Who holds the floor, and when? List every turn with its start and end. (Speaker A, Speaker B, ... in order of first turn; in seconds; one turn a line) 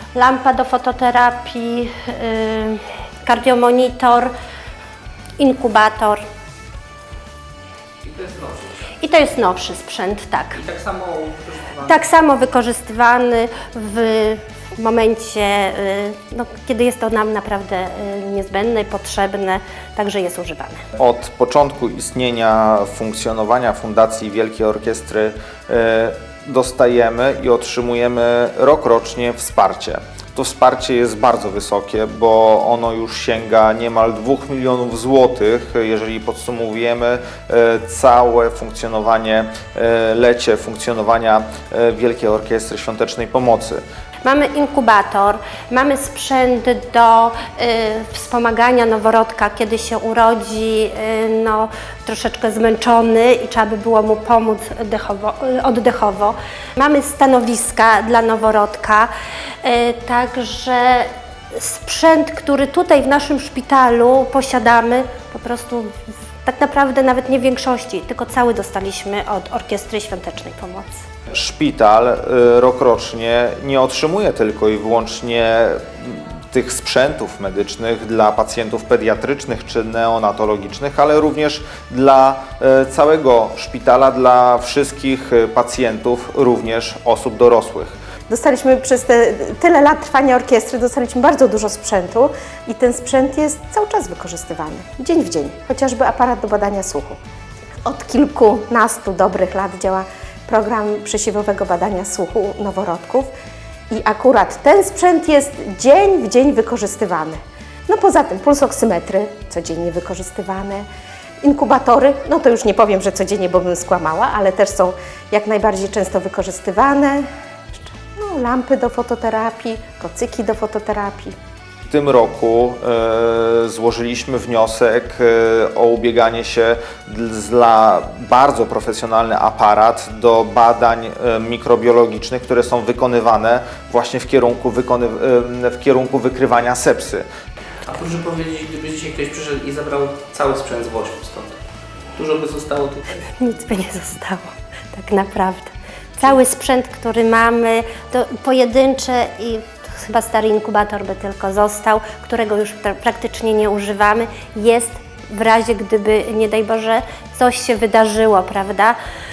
Speaker A: 0.1-4.3
Speaker A: 5.4-6.2
Speaker B: 8.0-8.9
Speaker A: 9.0-10.6
Speaker B: 10.6-12.0
Speaker A: 11.8-20.8
Speaker C: 21.0-43.8
Speaker A: 44.2-59.1
Speaker A: 59.6-65.9
Speaker A: 66.4-71.0
Speaker C: 71.3-88.0
Speaker D: 88.3-97.2
Speaker D: 97.8-103.3
Speaker D: 103.9-110.9
Speaker D: 111.4-121.3
Speaker C: 121.9-137.2
Speaker B: 137.9-141.6
Speaker B: 142.2-143.2
Speaker A: 143.2-159.0